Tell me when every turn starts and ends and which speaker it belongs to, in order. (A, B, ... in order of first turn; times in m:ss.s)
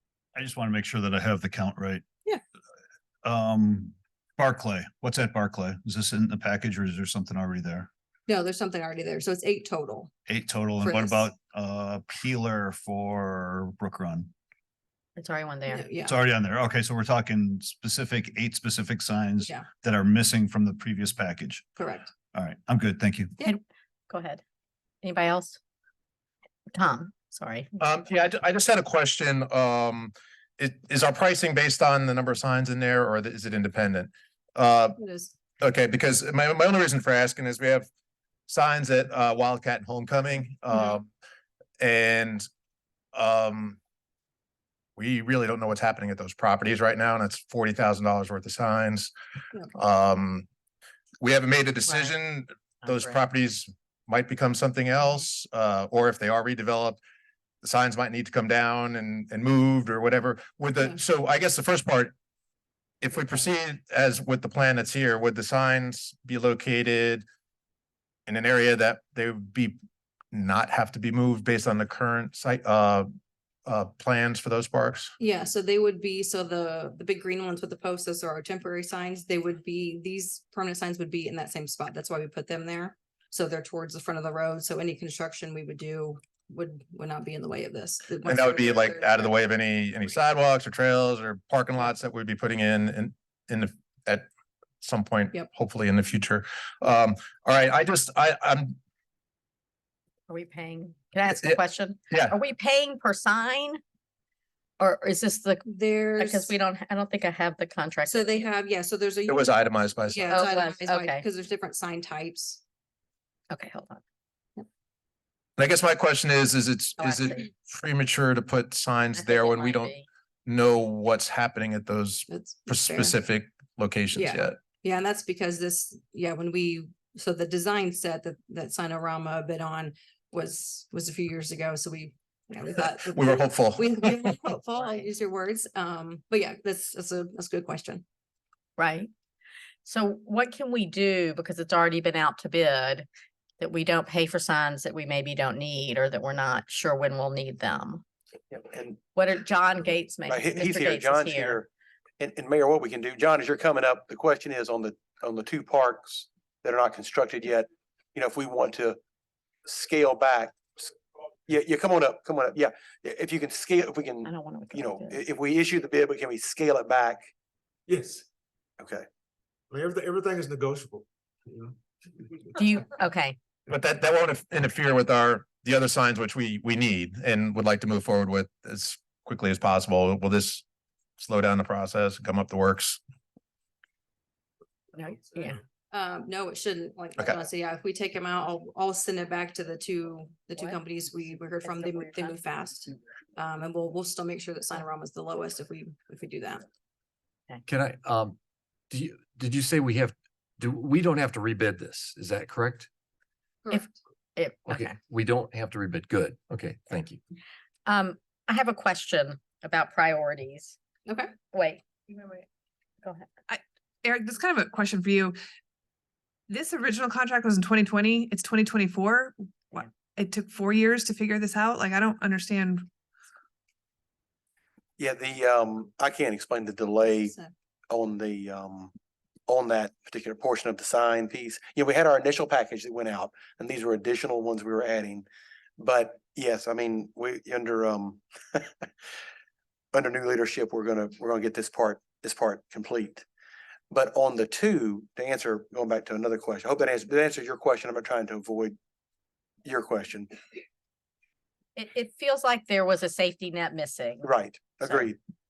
0:00.4-0:02.0 A
0:03.2-0:07.9 A
0:08.3-0:10.1 B
0:10.3-0:14.3 A
0:10.8-0:11.3 B
0:15.2-0:15.9 C
0:15.7-0:16.2 B
0:16.0-0:21.7 A
0:19.4-0:19.7 B
0:21.8-0:22.1 B
0:22.3-0:23.3 A
0:23.4-0:24.4 C
0:25.0-0:25.6 C
0:26.7-0:27.7 C
0:27.8-0:35.0 D
0:35.0-0:35.3 B
0:35.6-0:37.9 D
0:38.5-0:41.1 D
0:41.8-0:42.4 D
0:43.1-0:43.8 D
0:45.0-0:49.1 D
0:49.7-0:50.4 D
0:51.2-0:57.0 D
0:52.8-0:53.1 C
0:57.6-1:02.1 D
1:03.0-1:07.2 D
1:08.2-1:09.8 D
1:10.3-1:13.1 D
1:13.6-1:15.1 D
1:15.2-1:29.3 B
1:28.2-1:34.3 D
1:34.8-1:38.8 D
1:40.3-1:43.8 C
1:42.1-1:42.4 D
1:44.8-1:45.6 C
1:45.6-1:46.6 B
1:46.2-1:48.5 C
1:48.1-1:52.6 B
1:49.3-1:50.4 D
1:50.3-1:51.2 C
1:53.5-1:54.0 C
1:55.6-1:59.9 D
1:57.0-1:57.4 C
1:59.1-2:00.0 C
2:00.4-2:04.6 D
2:02.3-2:03.2 B
2:04.1-2:18.0 B
2:13.1-2:14.4 D
2:18.8-2:19.1 C
2:19.8-2:23.0 C
2:23.6-2:28.0 C
2:28.5-2:29.0 E
2:29.1-2:31.6 C
2:30.3-2:31.7 E
2:32.2-2:39.0 E
2:39.6-2:40.9 E
2:41.5-2:47.3 E
2:44.2-2:45.2 C
2:47.9-2:48.2 F
2:48.8-2:49.0 E
2:49.7-2:51.7 F
2:52.6-2:53.4 C
2:53.7-3:00.6 D
3:01.2-3:03.0 D
3:04.9-3:05.6 C
3:05.9-3:16.6 B
3:12.1-3:12.3 C
3:17.6-3:18.4 G
3:18.9-3:22.9 G
3:23.7-3:24.9 C
3:24.6-3:27.2 G
3:27.8-3:30.8 C
3:31.1-3:31.3 B
3:31.5-3:32.4 C
3:33.5-3:35.4 H
3:36.5-3:42.8 H
3:45.0-3:47.3 E
3:47.0-3:47.5 B
3:47.9-3:48.9 E
3:49.5-3:55.3 E
3:55.8-3:58.7 E
3:59.9-4:03.2 E
4:03.9-4:08.8 E
4:09.6-4:10.3 E
4:11.8-4:14.3 C
4:14.2-4:15.2 E